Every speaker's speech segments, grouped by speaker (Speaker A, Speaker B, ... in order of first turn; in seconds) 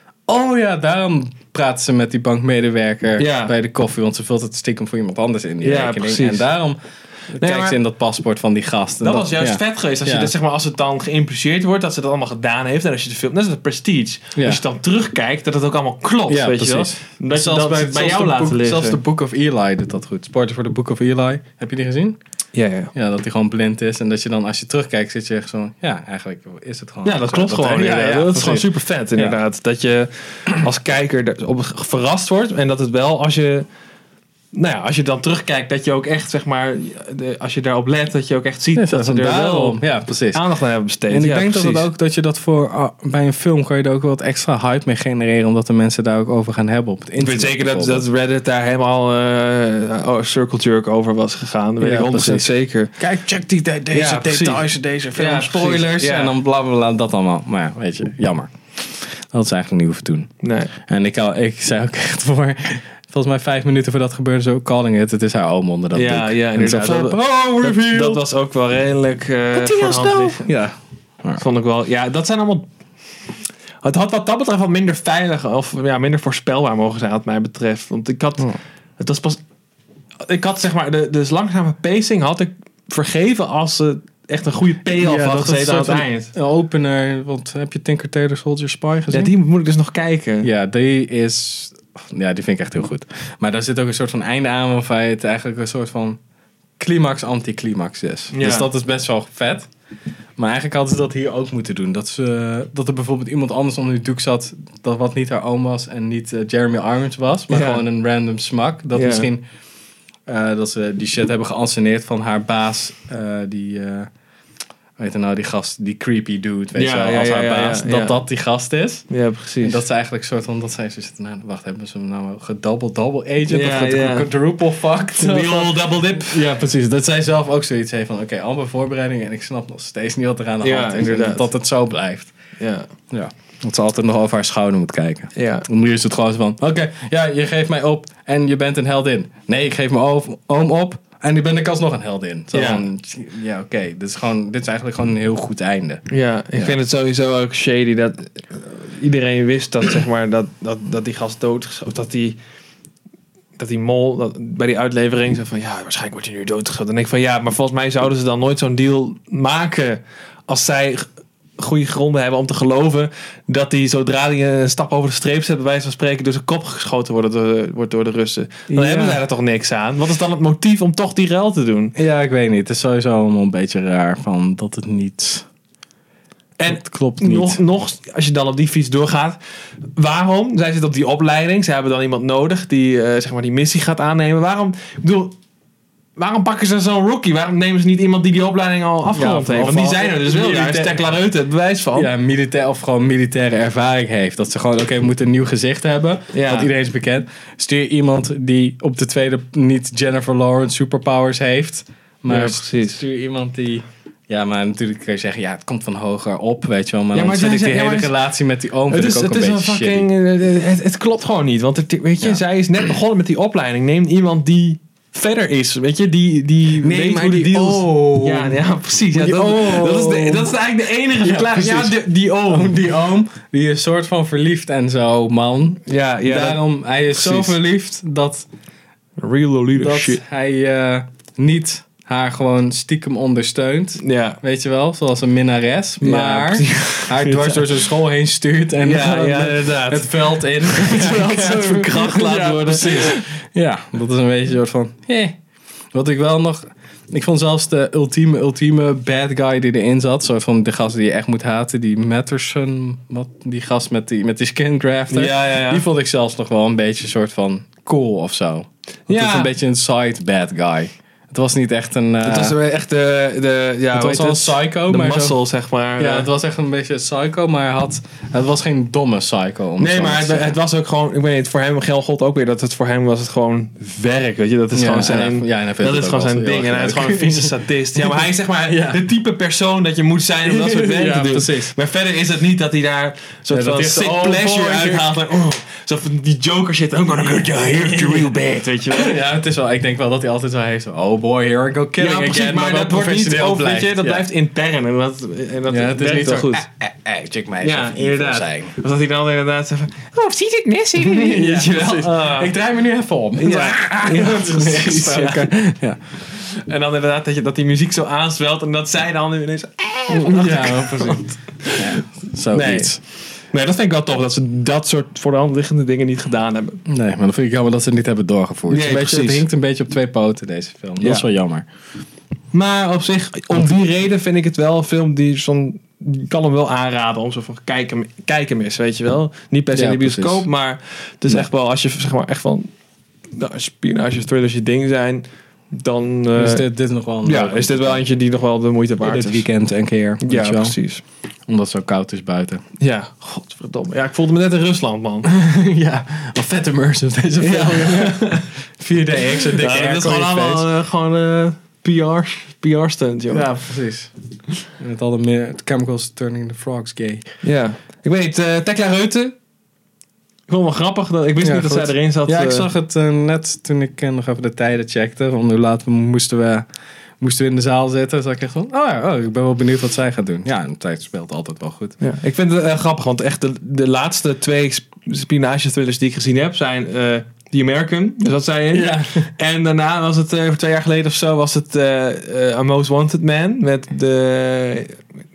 Speaker A: 0.3-6.8, 7.3-10.3, 14.4-14.6, 16.3-22.2, 22.9-29.4, 38.7-40.4, 41.1-48.1, 51.8-60.3, 60.9-68.2, 69.5-71.4, 85.0-89.3, 90.4-96.2, 96.8-99.7, 100.4-109.4, 110.3-114.1, 115.0-119.1, 119.6-132.3, 133.1-146.0, 168.7-169.2, 171.9-175.5, 176.7-177.6, 189.1-191.0, 191.9-210.1, 216.8-220.6, 221.2-228.5, 229.8-245.3, 245.9-262.6, 263.9-265.4, 266.0-270.6, 274.7-279.0, 280.4-281.7, 283.5-285.2, 287.4-288.3, 288.9-294.3, 295.7-298.7, 301.0-306.2, 310.1-313.0, 316.9-321.7, 329.7-330.5, 336.3-338.1, 339.0-340.8, 341.5-342.6, 345.2-350.7, 353.3-354.1, 354.8-357.2, 361.4-366.7, 367.2-371.9, 378.7-379.3
Speaker B: 3.2-3.5, 5.6-6.5, 7.4-7.8, 9.0-19.0, 22.6-22.9, 27.0-33.7, 34.5-39.8, 40.3-41.9, 47.2-52.9, 53.9-56.4, 60.4-60.7, 65.9-70.5, 71.4-72.7, 73.8-79.4, 80.2-86.3, 89.1-90.5, 98.3-98.7, 107.5-107.8, 108.9-109.3, 116.8-118.2, 119.1-119.8, 123.5-124.3, 125.2-126.4, 130.6-131.5, 132.6-132.9, 135.3-135.7, 142.5-142.8, 146.1-152.4, 153.6-161.1, 161.6-171.9, 176.6-179.4, 180.0-185.4, 186.2-192.1, 196.3-196.7, 202.3-203.0, 207.1-208.2, 208.9-222.8, 225.9-227.6, 229.2-230.2, 234.0-234.4, 236.0-237.9, 238.8-243.2, 255.1-255.8, 259.1-259.5, 262.2-266.3, 269.8-289.1, 292.0-296.7, 297.6-302.5, 303.4-305.5, 306.2-311.9, 312.5-313.0, 313.5-316.8, 318.7-319.5, 321.0-321.3, 322.5-332.7, 333.3-336.7, 337.2-339.5, 340.2-341.0, 342.8-345.3, 347.4-348.5, 349.6-353.5, 357.4-359.3, 360.5-362.7, 372.0-385.0